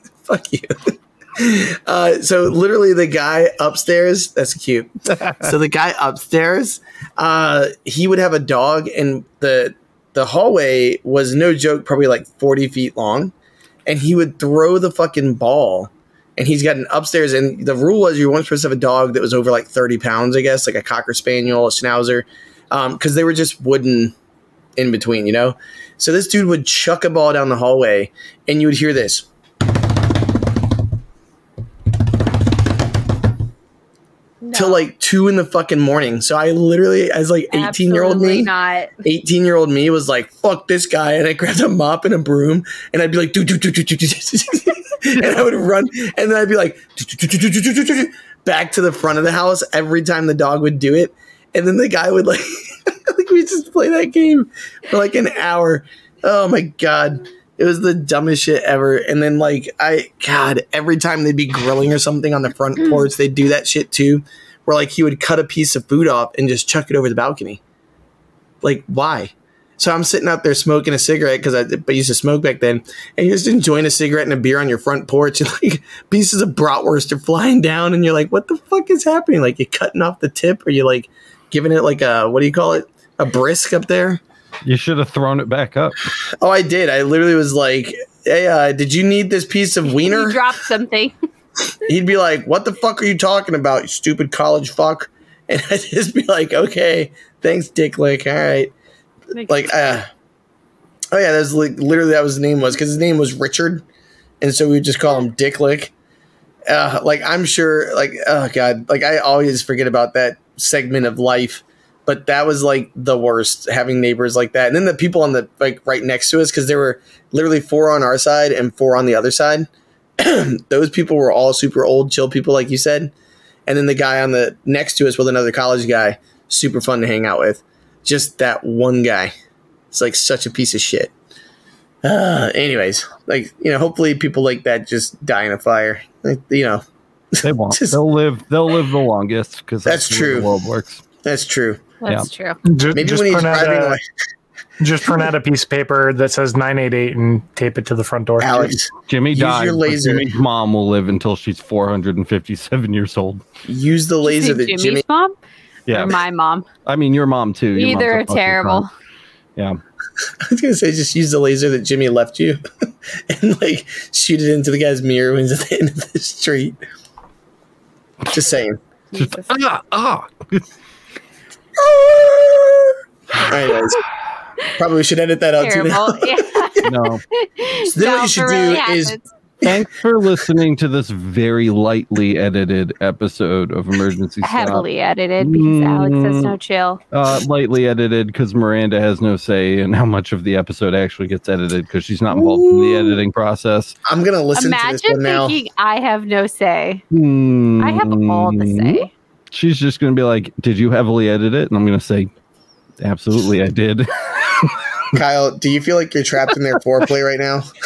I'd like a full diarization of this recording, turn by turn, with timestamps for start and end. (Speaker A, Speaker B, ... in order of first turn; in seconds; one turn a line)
Speaker A: 0.2-13.3
Speaker A: 13.8-24.1
Speaker A: 24.8-29.3
Speaker B: 34.4-34.8
Speaker A: 34.5-38.5
Speaker B: 37.5-38.9
Speaker A: 39.0-67.6
Speaker A: 68.6-84.2
Speaker C: 84.6-86.1
Speaker A: 86.4-90.4
Speaker B: 89.9-91.1
Speaker A: 91.8-98.7
Speaker B: 99.3-99.6
Speaker A: 99.5-100.1
Speaker A: 101.1-103.8
Speaker A: 104.4-105.9
Speaker A: 106.7-123.1
Speaker A: 123.7-129.3
Speaker A: 129.9-131.1
Speaker A: 132.0-136.8
Speaker A: 137.3-138.0
Speaker C: 137.4-141.0
Speaker A: 139.8-140.5
Speaker A: 141.2-141.8
Speaker B: 142.0-142.6
Speaker D: 142.7-144.0
Speaker A: 142.9-144.0
Speaker D: 144.8-148.8
Speaker A: 148.4-150.3
Speaker C: 149.1-153.4
Speaker A: 153.7-155.0
Speaker B: 154.2-155.3
Speaker C: 155.9-156.2
Speaker B: 155.9-156.7
Speaker C: 156.8-158.8
Speaker B: 157.8-158.9
Speaker A: 160.4-162.6
Speaker A: 163.3-166.8
Speaker A: 168.3-168.8
Speaker B: 169.1-169.6
Speaker C: 169.1-170.6
Speaker A: 171.8-174.0
Speaker A: 174.8-176.8
Speaker B: 175.6-179.3
Speaker C: 176.8-177.2
Speaker A: 177.8-179.2
Speaker C: 179.6-184.8
Speaker B: 184.4-187.0
Speaker C: 185.4-186.5
Speaker C: 187.1-194.0
Speaker A: 192.3-193.2
Speaker A: 194.0-195.6
Speaker B: 194.5-197.0
Speaker C: 197.1-202.3
Speaker B: 197.8-199.1
Speaker C: 203.0-204.8
Speaker A: 205.1-207.7